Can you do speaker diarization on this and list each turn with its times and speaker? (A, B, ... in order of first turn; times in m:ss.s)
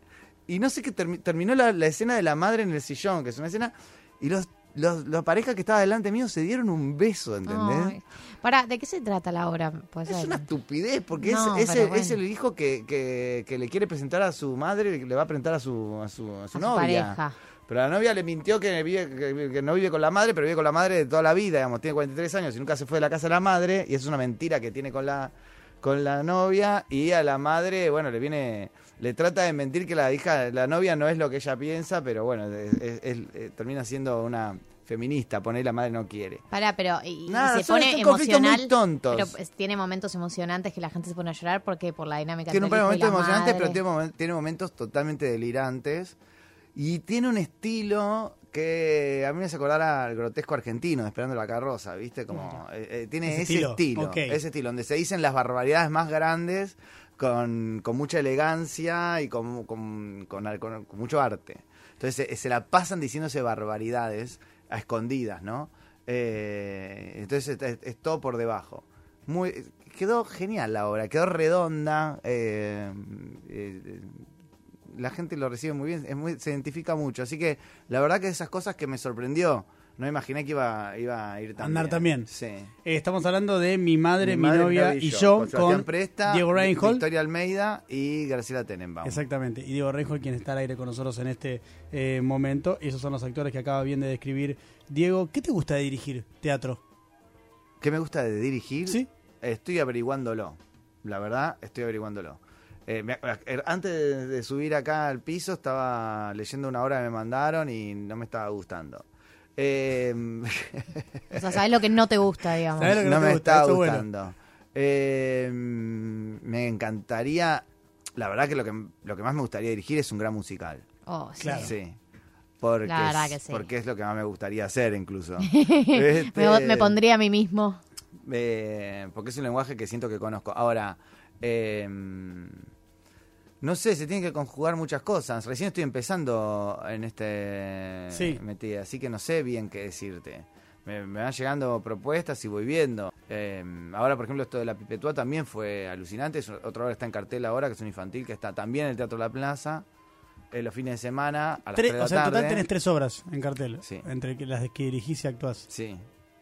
0:00.5-0:08.0 A
0:07.5-0:10.4 B
0:10.1-0:36.4 A
0:11.2-0:12.2 B
0:16.5-0:17.3 B
0:36.5-0:43.8 B
0:37.3-0:39.3 A
0:42.5-0:46.2 A
0:46.7-1:14.2 A
0:53.2-0:54.4 C
1:14.9-1:22.7 A
1:21.6-1:22.3 C
1:22.8-1:27.0 C
1:24.2-1:29.2 A
1:29.0-1:36.8 C
1:37.8-1:49.0 A
1:49.6-1:51.6 A
1:51.3-1:53.0 B
1:52.8-1:54.0 C
1:52.8-1:57.6 A
1:58.2-2:00.8 A
2:01.0-2:01.7 B
2:01.4-2:01.7 C
2:01.6-2:02.0 A
2:02.6-2:07.0 A
2:02.8-2:03.6 B
2:05.4-2:07.8 B
2:08.2-2:12.7 A
2:13.6-2:29.8 A
2:18.1-2:18.4 C
2:30.5-2:32.6 A
2:31.7-2:35.6 C
2:35.7-2:36.0 A